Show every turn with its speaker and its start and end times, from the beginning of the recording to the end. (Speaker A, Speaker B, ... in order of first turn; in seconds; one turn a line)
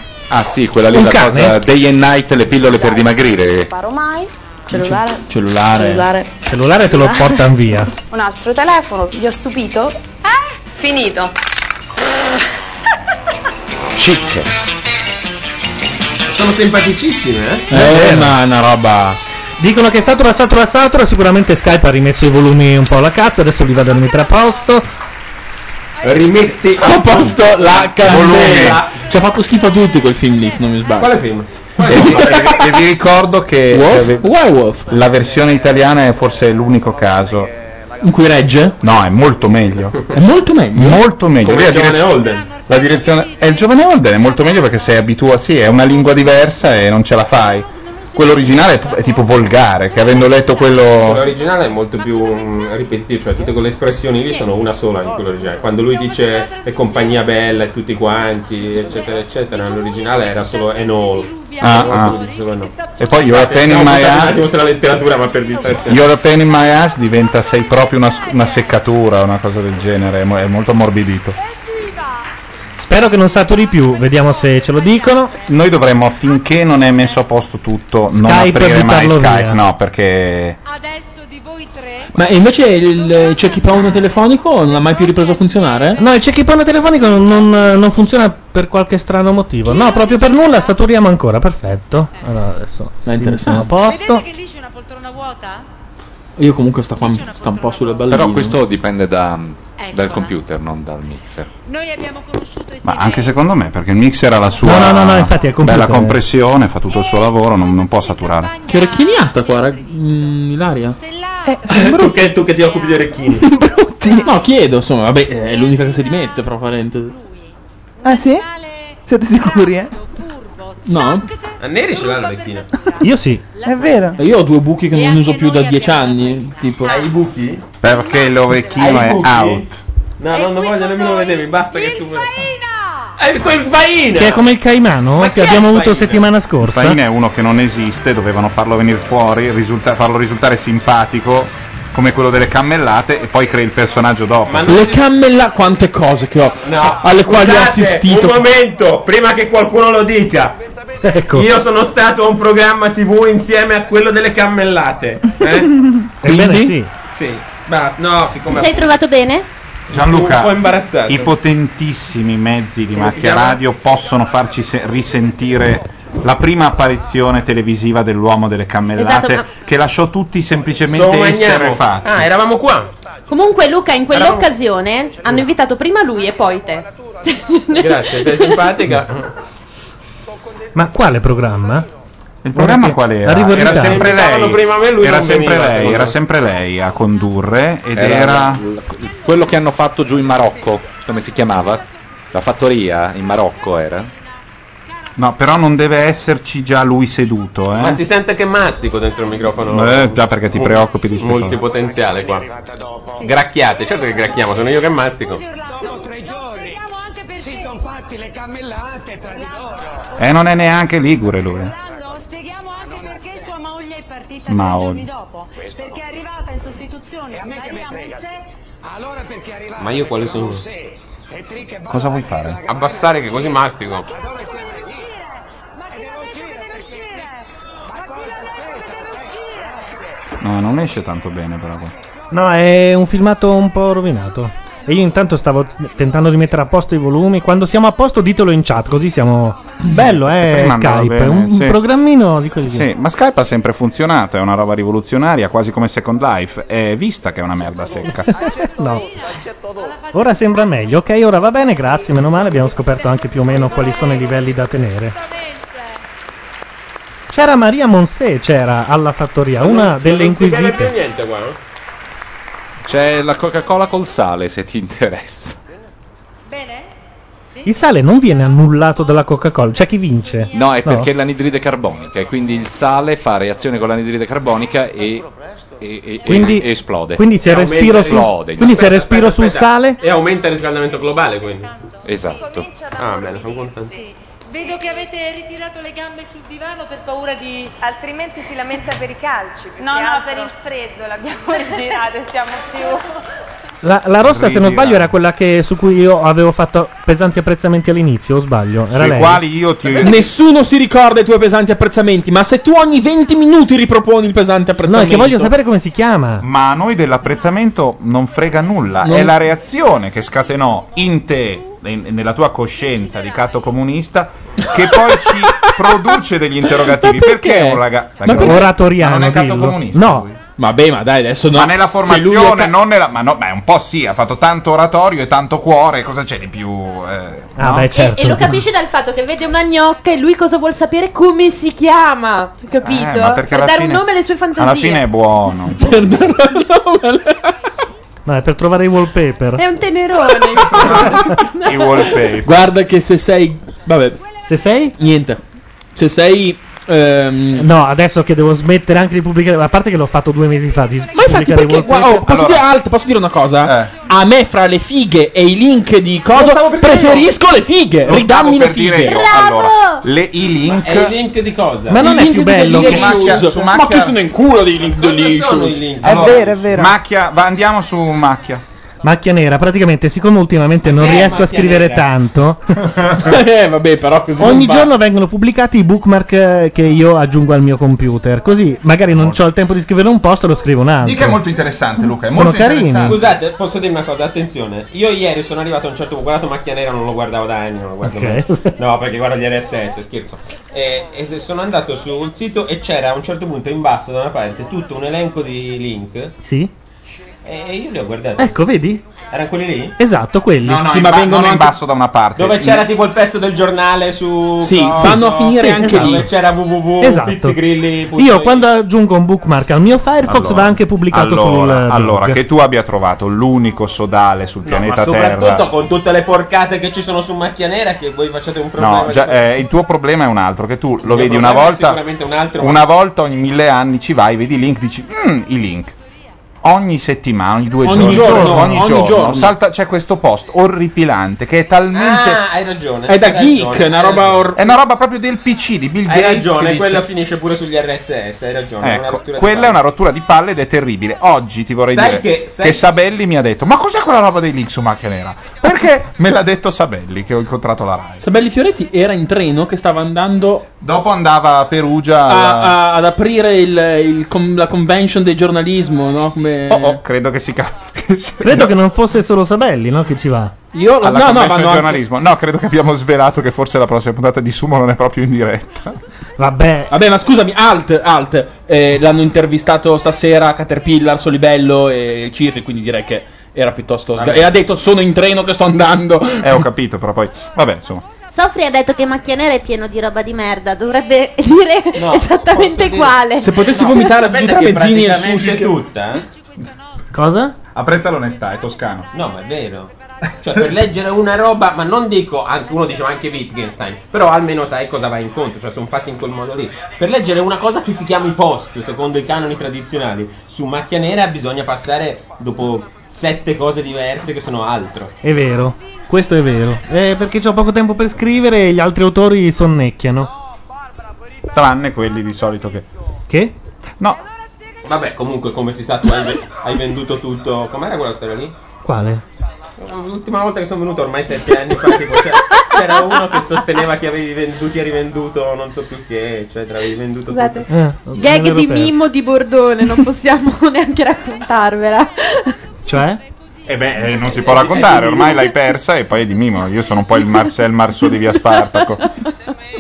Speaker A: 0.3-3.7
Speaker B: 0.9-1.6
Speaker C: 2.6-6.3
Speaker D: 4.7-6.1
Speaker B: 6.5-7.9
Speaker C: 6.9-7.5
Speaker C: 8.1-10.0
Speaker C: 10.7-11.3
Speaker A: 14.0-14.5
Speaker E: 16.3-17.7
Speaker D: 17.7-19.2
Speaker B: 17.7-18.4
Speaker B: 19.6-24.9
Speaker E: 26.0-29.0
Speaker D: 26.8-31.2
Speaker F: 28.0-28.8
Speaker E: 31.0-32.6
Speaker D: 31.9-32.8
Speaker F: 31.9-34.3
Speaker D: 33.7-34.9
Speaker F: 34.9-37.5
Speaker D: 38.0-38.8
Speaker F: 38.8-40.1
Speaker D: 40.1-41.0
Speaker F: 40.7-51.2
Speaker E: 41.4-42.6
Speaker E: 51.0-66.0
Speaker F: 61.6-62.2
Speaker F: 63.0-64.5
Speaker F: 65.9-71.4
Speaker B: 72.8-75.3
Speaker F: 75.5-80.6
Speaker B: 78.1-79.6
Speaker D: 82.1-86.0
Speaker B: 86.0-94.2
Speaker D: 93.0-93.7
Speaker G: 94.3-95.6
Speaker D: 96.4-98.6
Speaker G: 97.7-98.0
Speaker A: 98.1-101.5
Speaker G: 99.8-100.1
Speaker G: 101.8-103.3
Speaker F: 102.8-108.5
Speaker B: 104.6-106.2
Speaker D: 108.7-111.0
Speaker G: 108.9-109.5
Speaker H: 111.5-112.3
Speaker E: 111.7-113.4
Speaker H: 113.4-114.3
Speaker D: 114.2-117.2
Speaker H: 118.0-118.5
Speaker H: 119.1-120.0
Speaker D: 120.8-121.3
Speaker E: 121.6-122.7
Speaker B: 123.0-123.4
Speaker H: 123.6-124.2
Speaker D: 124.2-127.0
Speaker G: 124.9-127.0
Speaker E: 126.9-127.6
Speaker F: 127.8-129.8
Speaker E: 128.8-129.7
Speaker E: 130.2-132.3
Speaker G: 130.4-131.6
Speaker E: 133.2-134.5
Speaker B: 134.2-137.0
Speaker E: 135.2-136.3
Speaker F: 136.6-144.8
Speaker E: 144.5-145.0
Speaker D: 144.7-148.5
Speaker E: 146.6-150.6
Speaker B: 151.0-151.5
Speaker E: 151.3-155.7
Speaker D: 156.2-156.8
Speaker B: 156.2-156.9
Speaker E: 157.1-158.9
Speaker I: 158.5-159.5
Speaker E: 159.9-161.3
Speaker F: 159.9-172.3
Speaker E: 162.9-163.6
Speaker I: 169.0-169.5
Speaker E: 170.8-172.9
Speaker I: 173.3-178.7
Speaker E: 174.1-174.5
Speaker E: 177.7-179.3
Speaker B: 180.7-181.9
Speaker F: 182.4-188.6
Speaker B: 182.6-184.1
Speaker E: 183.6-186.2
Speaker A: 187.9-194.1
Speaker F: 195.2-198.0
Speaker E: 197.8-202.5
Speaker F: 199.7-201.6
Speaker E: 203.2-205.4
Speaker F: 210.2-211.8
Speaker F: 214.5-215.1
Speaker G: 217.7-218.0
Speaker E: 219.8-220.7
Speaker F: 221.9-222.6
Speaker E: 222.7-224.1
Speaker F: 230.4-231.9
Speaker B: 232.3-242.9
Speaker F: 239.9-241.8
Speaker F: 242.7-248.3
Speaker B: 248.4-249.1
Speaker B: 250.1-255.2
Speaker B: 257.3-260.9
Speaker E: 259.6-261.6
Speaker A: 262.9-265.6
Speaker B: 267.6-271.1
Speaker A: 270.5-275.3
Speaker A: 275.8-277.3
Speaker B: 276.3-280.0
Speaker E: 277.4-281.7
Speaker A: 277.8-278.9
Speaker A: 282.1-282.7
Speaker E: 282.9-284.0
Speaker G: 283.9-287.8
Speaker C: 287.8-293.0
Speaker G: 289.8-292.1
Speaker B: 293.8-299.5
Speaker F: 294.2-295.1
Speaker F: 298.9-300.3
Speaker D: 300.0-305.5
Speaker B: 304.9-306.5
Speaker F: 306.4-320.4
Speaker D: 309.0-309.4
Speaker D: 315.3-315.8
Speaker D: 316.8-318.7
Speaker B: 318.3-320.3
Speaker D: 320.6-322.7
Speaker F: 321.5-327.9
Speaker B: 327.6-328.6
Speaker I: 327.9-335.0
Speaker F: 332.8-334.1
Speaker F: 334.6-336.4
Speaker D: 335.8-337.5
Speaker B: 338.3-339.6
Speaker I: 339.6-342.1
Speaker F: 340.7-342.7
Speaker D: 342.4-344.2
Speaker B: 344.5-344.9
Speaker D: 345.0-345.4
Speaker D: 346.0-347.7
Speaker B: 347.6-352.3
Speaker D: 351.1-359.3
Speaker F: 352.2-352.7
Speaker F: 353.6-353.9
Speaker E: 356.3-357.3
Speaker F: 358.1-361.2
Speaker I: 359.1-360.0
Speaker E: 360.7-362.0
Speaker B: 361.9-363.4
Speaker D: 362.0-365.9
Speaker F: 362.7-364.2
Speaker E: 364.8-366.6
Speaker H: 366.0-367.0
Speaker F: 366.0-368.6
Speaker B: 369.0-372.9
Speaker E: 370.8-372.1
Speaker D: 373.2-374.9
Speaker B: 374.4-381.4
Speaker F: 379.1-379.4
Speaker F: 381.0-383.4
Speaker B: 382.3-383.2
Speaker E: 383.1-396.3
Speaker B: 388.1-388.8
Speaker B: 396.4-396.7
Speaker E: 397.4-398.6
Speaker B: 398.4-399.0
Speaker E: 399.3-399.9
Speaker B: 400.0-400.9
Speaker F: 400.6-402.9
Speaker D: 400.8-401.8
Speaker E: 402.4-408.7
Speaker D: 404.6-406.3
Speaker B: 405.0-406.3
Speaker B: 407.0-407.6
Speaker B: 408.2-412.4
Speaker F: 410.2-415.6
Speaker E: 414.6-419.4
Speaker F: 418.8-422.0
Speaker E: 421.0-422.8
Speaker F: 422.6-425.9
Speaker F: 426.6-432.4
Speaker D: 427.8-429.5
Speaker B: 427.9-428.7
Speaker E: 431.9-434.5
Speaker D: 433.1-434.6
Speaker F: 434.6-437.1
Speaker E: 436.1-439.8
Speaker F: 438.8-448.3
Speaker E: 441.9-442.8
Speaker D: 448.2-450.7
Speaker F: 450.8-452.8
Speaker D: 452.3-457.0
Speaker F: 456.7-458.7
Speaker B: 458.4-460.6
Speaker D: 460.7-462.0
Speaker F: 461.0-466.0
Speaker B: 466.4-466.9
Speaker D: 466.9-476.6
Speaker E: 474.2-474.5
Speaker F: 476.4-478.1
Speaker I: 478.3-483.5
Speaker E: 482.0-486.2
Speaker D: 483.4-485.8
Speaker B: 487.1-487.6
Speaker F: 487.7-489.1
Speaker E: 489.1-505.1
Speaker B: 505.2-510.3
Speaker F: 511.5-512.9
Speaker B: 513.3-513.5
Speaker E: 514.9-518.5
Speaker B: 518.8-519.2
Speaker E: 519.8-527.7
Speaker I: 527.3-532.5
Speaker B: 527.7-529.0
Speaker B: 532.9-533.2
Speaker F: 533.7-539.1
Speaker E: 534.0-535.5